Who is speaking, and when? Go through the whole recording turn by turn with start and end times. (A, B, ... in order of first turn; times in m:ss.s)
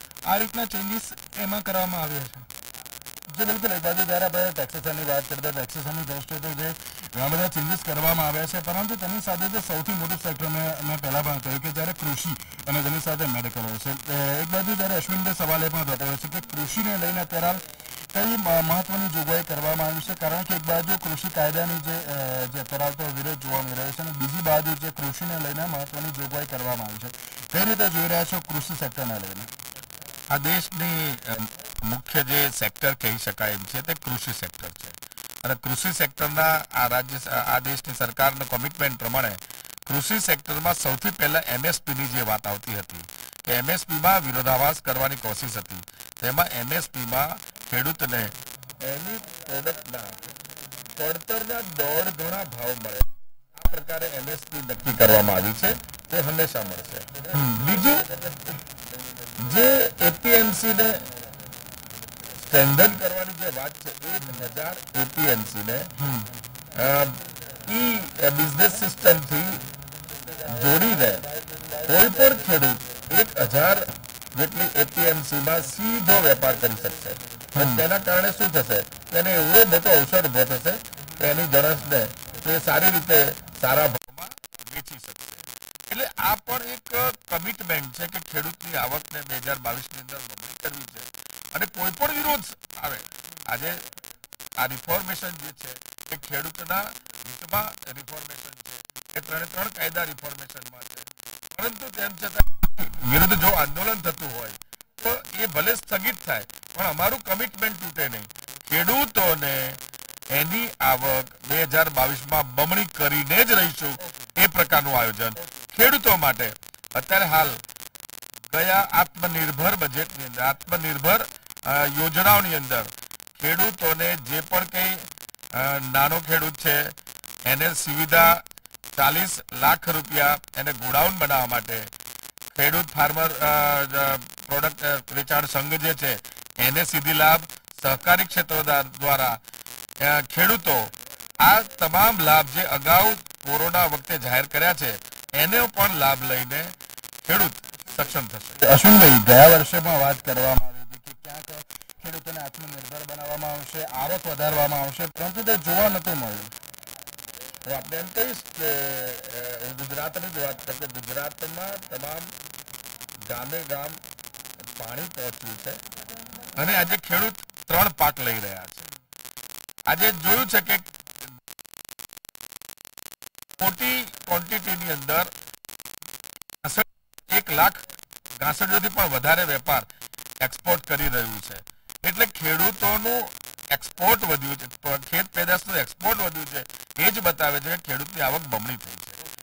0:00.3-0:02.5 A
0:03.3-0:29.5 B
0:30.3-0:50.2 C
0:51.0-0:58.5 C
0:57.3-0:57.7 B
0:59.4-1:01.0 C
1:02.4-1:05.9 C
1:06.0-1:06.3 B
1:06.7-1:09.6 C
1:10.4-1:11.3 C
1:11.8-1:25.4 C
1:17.6-1:17.8 B
1:25.9-1:33.8 C
1:34.6-1:49.8 C
1:50.3-1:57.6 C
1:58.5-2:08.4 C
2:09.0-2:11.9 C
2:12.5-2:19.4 C
2:20.0-2:26.7 C
2:27.2-2:28.6 C
2:28.6-2:36.5 B
2:37.6-2:42.3 C
2:43.2-2:44.0 C
2:44.6-2:45.8 C
2:46.6-2:48.8 C
2:49.9-2:50.8 C
2:53.6-2:55.3 C
2:56.6-2:57.8 C
2:58.4-2:59.9 C
3:00.4-3:09.2 C